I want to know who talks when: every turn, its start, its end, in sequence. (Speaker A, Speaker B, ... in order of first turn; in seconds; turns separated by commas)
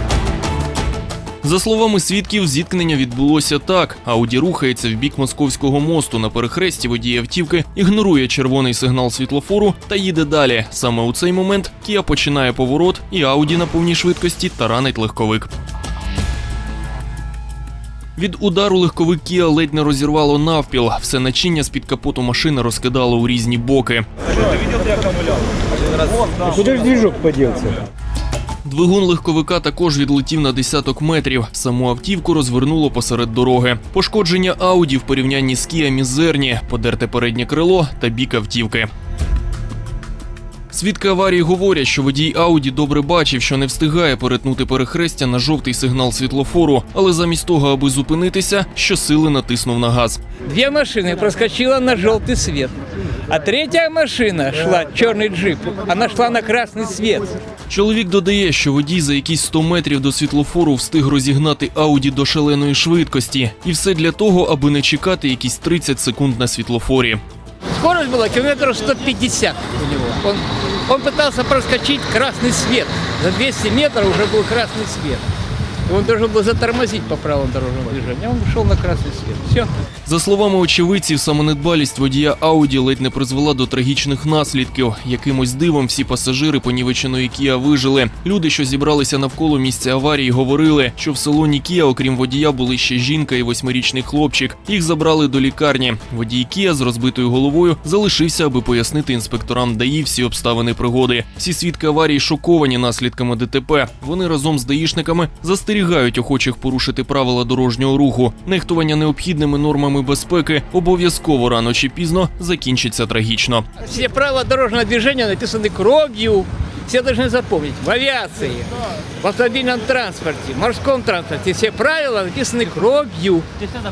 Speaker A: 1.4-15.5, Speaker A: 18.2-24.1, Speaker B: 26.5-27.7, Speaker A: 28.6-38.9, Speaker A: 40.7-50.2, Speaker B: 50.4-52.8, Speaker B: 53.3-57.4, Speaker A: 57.7-67.2, Speaker B: 67.8-75.2, Speaker B: 75.9-79.7, Speaker A: 80.0-113.7, Speaker B: 113.8-118.7, Speaker B: 119.2-123.5